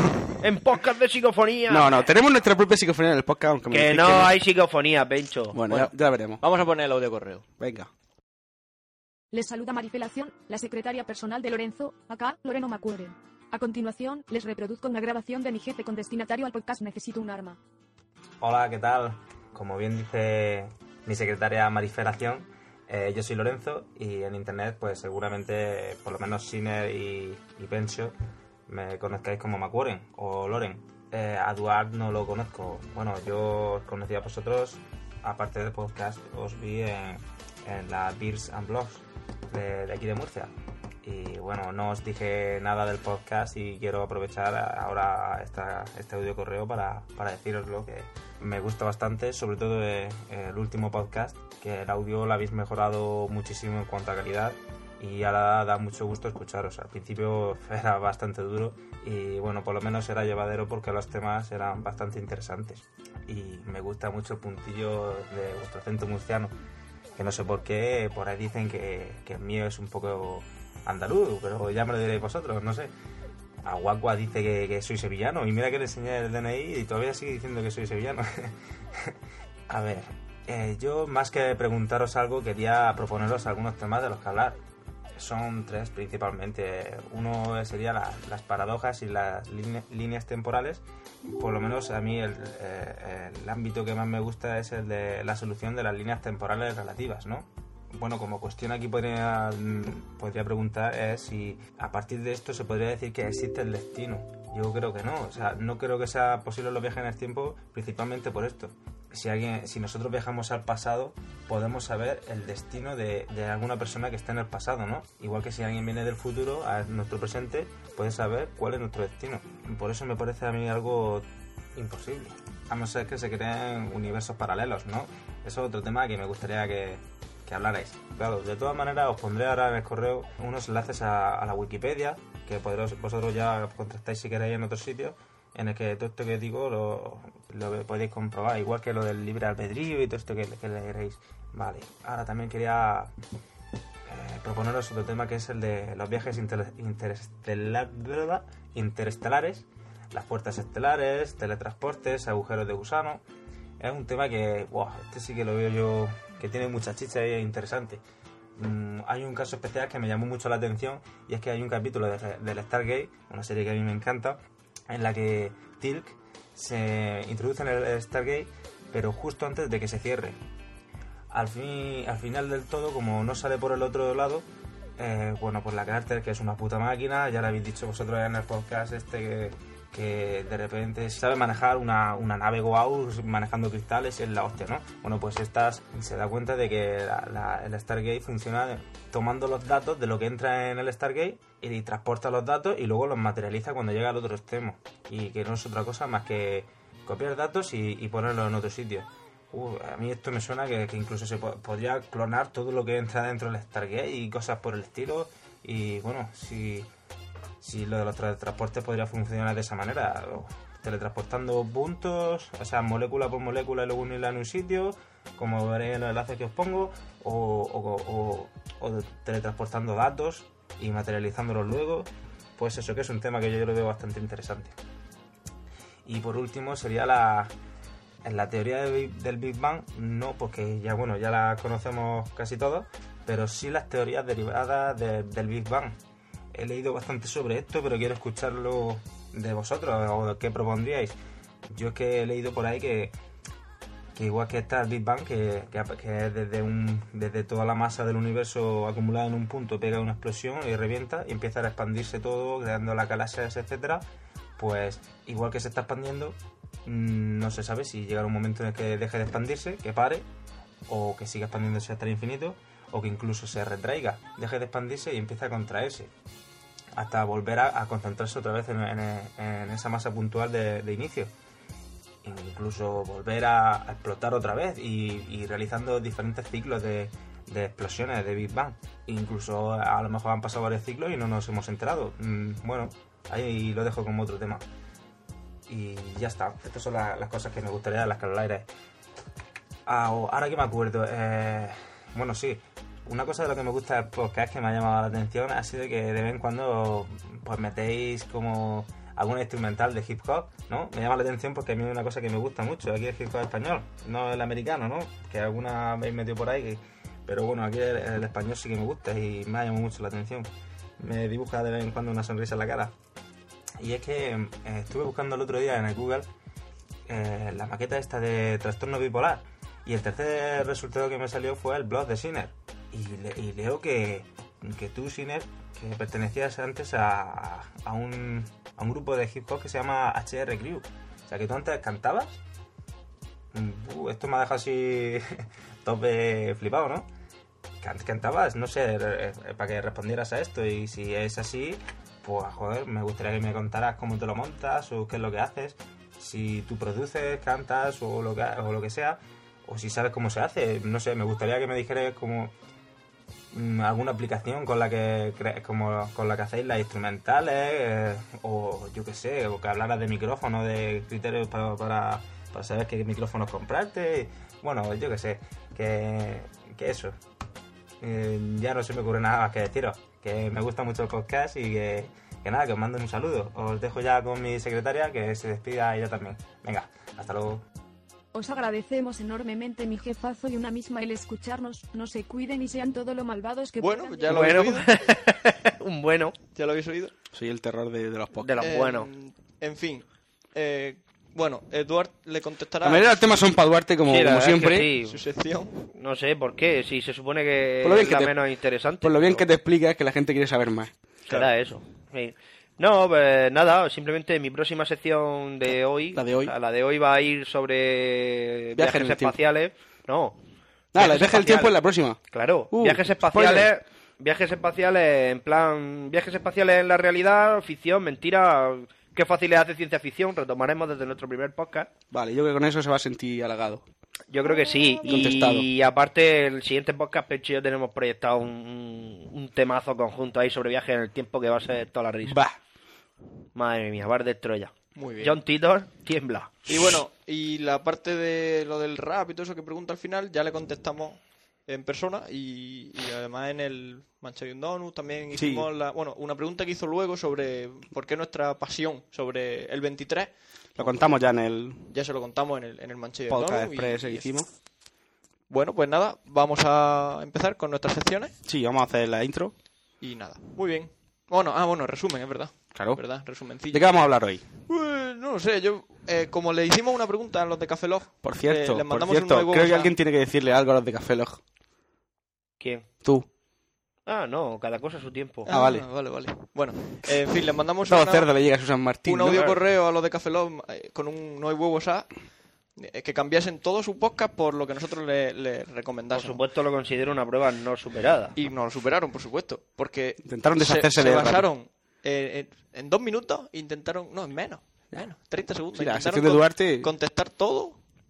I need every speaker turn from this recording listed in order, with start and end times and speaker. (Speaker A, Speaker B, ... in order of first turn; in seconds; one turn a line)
Speaker A: 0.4-2.0
Speaker B: 1.7-4.4
Speaker A: 3.7-5.6
Speaker B: 5.5-6.4
Speaker C: 5.7-7.5
Speaker B: 7.6-7.9
Speaker D: 9.3-17.6
Speaker E: 18.4-28.1
Speaker E: 28.7-40.5
Speaker E: 41.0-66.5
Speaker E: 67.2-72.9
Speaker E: 73.6-79.1
Speaker E: 79.7-84.6
Speaker E: 85.2-90.8
Speaker E: 91.4-143.1
Speaker E: 144.1-153.2
Speaker E: 153.8-158.0
Speaker E: 158.6-170.4
Speaker E: 171.3-174.5
Speaker E: 175.0-206.9
Speaker E: 207.6-224.7
Speaker E: 226.1-227.5
Speaker E: 228.2-236.0
Speaker E: 236.5-241.2
Speaker E: 241.7-243.1
Speaker E: 244.2-254.1
Speaker E: 254.6-260.3
Speaker E: 260.9-266.1
Speaker E: 267.0-271.3
Speaker E: 272.2-284.6
Speaker E: 285.7-288.7
Speaker E: 289.9-312.9
Speaker E: 313.8-316.3
Speaker E: 317.1-332.4
Speaker E: 333.5-337.1
Speaker E: 337.8-352.5
Speaker E: 353.5-367.2
Speaker E: 368.0-377.6
Speaker D: 378.3-384.6
Speaker C: 383.8-384.9
Speaker A: 384.3-386.4
Speaker C: 386.6-387.1
Speaker B: 387.3-388.5
Speaker A: 388.4-389.1
Speaker C: 388.6-393.2
Speaker B: 392.8-394.9
Speaker A: 394.1-395.2
Speaker C: 395.1-395.8
Speaker A: 395.9-399.5
Speaker B: 397.8-398.4
Speaker B: 399.0-401.4
Speaker A: 401.3-410.4
Speaker B: 406.1-406.5
Speaker B: 408.8-409.4
Speaker B: 410.9-412.2
Speaker A: 411.0-411.8
Speaker A: 412.3-421.9
Speaker B: 412.7-413.7
Speaker B: 422.1-423.8
Speaker A: 424.3-432.4
Speaker B: 425.1-425.7
Speaker B: 432.2-432.6
Speaker A: 433.6-436.5
Speaker C: 434.9-435.4
Speaker C: 436.7-451.1
Speaker B: 445.4-445.7
Speaker B: 450.8-451.8
Speaker C: 451.9-454.3
Speaker B: 453.3-454.5
Speaker C: 455.5-458.4
Speaker B: 458.4-459.5
Speaker C: 460.0-464.0
Speaker B: 462.8-463.0
Speaker B: 463.7-464.4
Speaker C: 464.6-469.9
Speaker B: 468.2-471.4
Speaker A: 472.6-472.9
Speaker A: 474.1-475.5
Speaker C: 475.5-478.3
Speaker B: 475.5-475.9
Speaker B: 477.9-479.6
Speaker C: 479.1-482.1
Speaker C: 482.8-486.4
Speaker A: 486.1-488.4
Speaker C: 488.4-497.8
Speaker B: 490.2-491.5
Speaker B: 495.7-496.9